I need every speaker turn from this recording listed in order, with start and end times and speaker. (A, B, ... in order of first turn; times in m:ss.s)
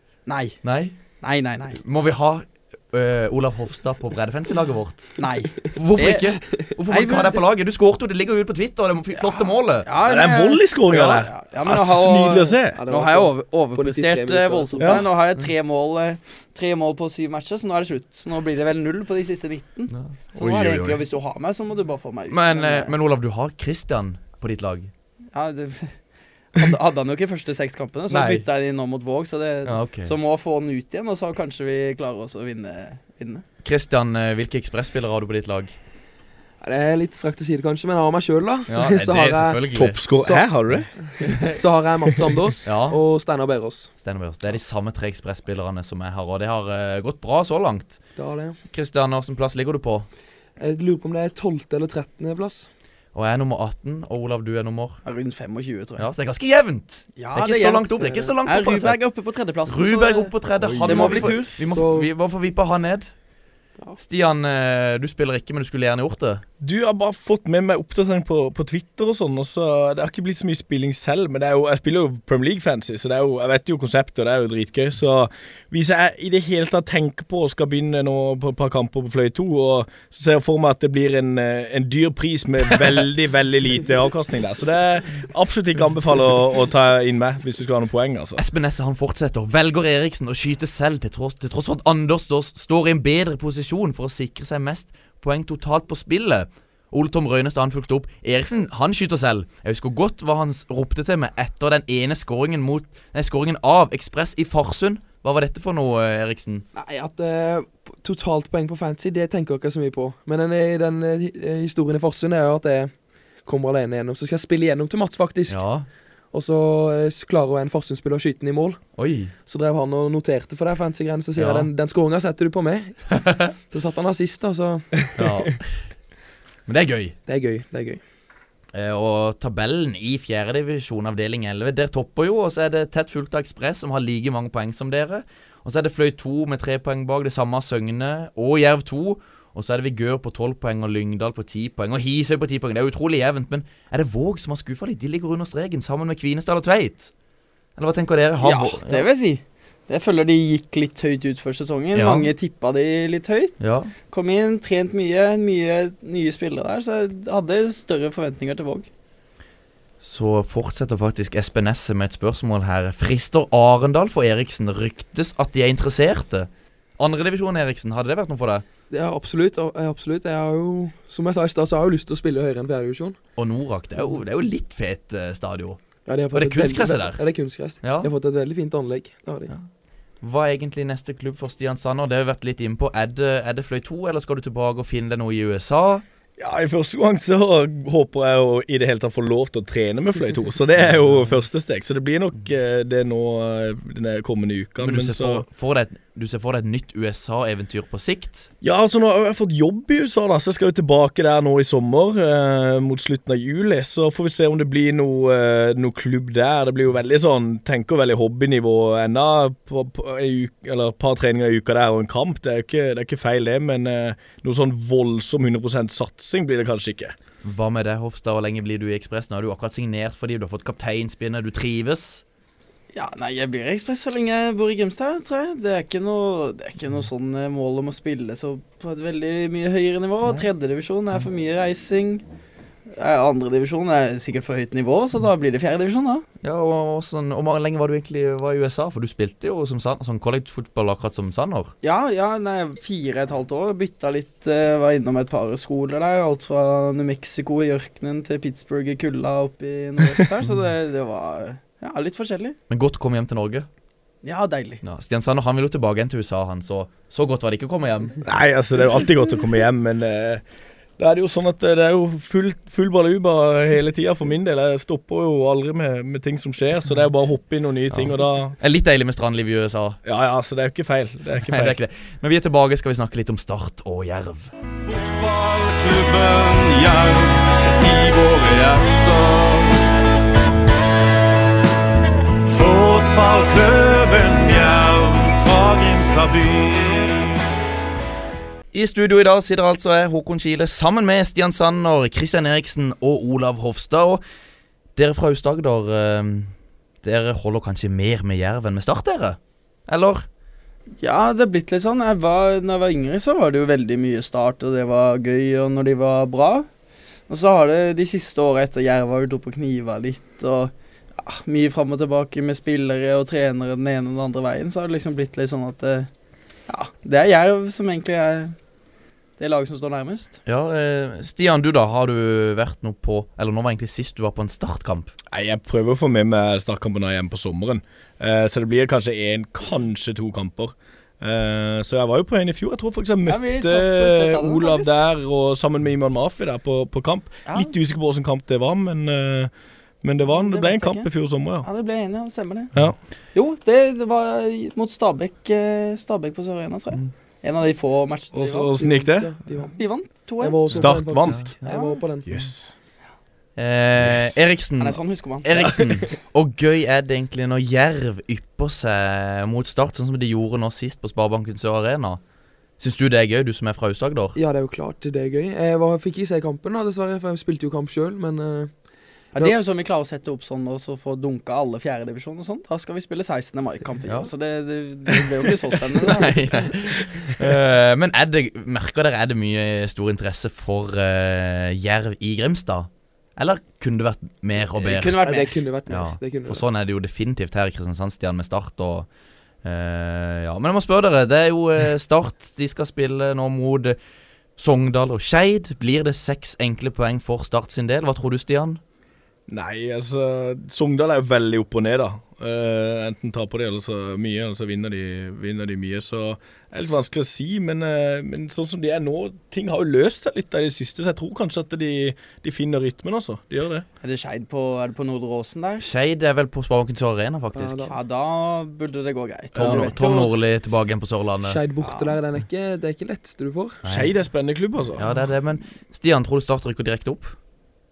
0:00.2-0:01.8 A
0:00.6-0:01.0 B
0:01.8-0:09.9 B
0:05.2-0:07.4 A
0:09.1-0:22.9 A
0:10.0-0:12.8 C
0:12.7-0:15.0 D
0:14.8-0:15.0 C
0:19.9-0:20.2 B
0:20.4-0:21.0 C
0:22.3-0:24.9 B
0:25.3-0:33.4 A
0:28.1-0:28.4 B
0:29.6-0:30.1 B
0:33.6-0:35.7 B
0:36.6-0:43.9 D
0:38.7-0:40.1 B
0:39.7-0:41.4 C
0:42.6-0:43.0 B
0:44.0-0:48.0 B
0:48.2-0:48.6 D
0:48.7-0:50.1 B
0:50.6-0:52.7 D
0:53.1-0:55.0 B
0:55.0-0:56.0 A
0:56.0-0:59.0 B
0:57.2-1:01.5 A
0:59.6-1:03.2 B
1:00.6-1:01.0 C
1:00.9-1:02.1 D
1:04.0-1:06.4 B
1:06.6-1:28.4 C
1:28.4-1:46.6 B
1:46.7-2:05.3 D
1:55.5-1:55.9 B
1:59.0-1:59.3 B
2:01.3-2:01.7 B
2:03.2-2:03.5 B
2:05.1-2:05.9 B
2:06.7-2:07.2 B
2:07.3-2:08.0 D
2:08.7-2:27.1 B
2:27.8-2:29.1 B
2:28.4-2:38.9 A
2:31.9-2:32.3 B
2:33.6-2:33.9 B
2:40.0-2:48.6 B
2:48.9-2:53.2 D
2:53.4-2:55.8 B
2:56.0-2:59.5 D
2:56.3-2:57.2 B
2:57.8-2:58.1 B
3:00.2-3:06.0 B
3:06.4-3:15.4 C
3:14.8-3:18.5 B
3:18.6-3:37.1 C
3:37.4-3:42.2 B
3:42.9-3:52.2 A
3:52.9-3:56.2 A
3:56.4-4:01.7 B
4:01.8-4:12.6 A
4:12.7-4:13.7 B
4:14.2-4:14.8 A
4:14.8-4:18.2 B
4:18.2-4:20.4 C
4:21.0-4:28.5 C
4:27.9-4:30.0 B
4:30.0-4:31.8 C
4:31.4-4:34.5 B
4:34.8-4:39.8 E
4:42.4-4:47.3 E
4:48.7-4:54.2 B
4:55.0-5:00.2 B
5:01.0-5:06.7 A
5:07.3-5:16.1 A
5:16.7-5:18.6 A
5:19.4-5:20.4 A
5:20.4-5:25.1 B
5:25.3-5:41.7 C
5:33.2-5:34.9 A
5:37.4-5:37.7 A
5:40.3-5:48.7 A
5:48.3-5:49.3 C
5:48.8-5:52.3 D
5:49.7-5:50.6 A
5:50.7-5:51.5 C
5:50.7-5:51.6 B
5:51.6-5:52.0 A
5:52.3-5:52.7 C
5:53.6-6:02.2 B
5:54.0-5:54.5 C
5:54.8-5:55.4 A
6:02.8-6:04.4 B
6:04.4-6:08.8 D
6:09.3-6:16.3 A
6:16.1-6:25.2 B
6:24.7-6:25.6 A
6:25.2-6:26.6 D
6:25.9-6:29.1 B
6:29.6-6:34.0 B
6:34.6-6:38.8 B
6:39.5-6:53.8 C
6:54.0-6:55.8 A
6:55.8-6:57.9 B
6:57.5-6:57.9 D
6:57.9-7:00.3 A
6:59.5-6:59.9 C
6:59.6-7:01.6 B
7:01.4-7:03.8 D
7:01.8-7:02.2 A
7:03.8-7:04.1 B
7:03.9-7:05.3 C
7:05.0-7:07.4 B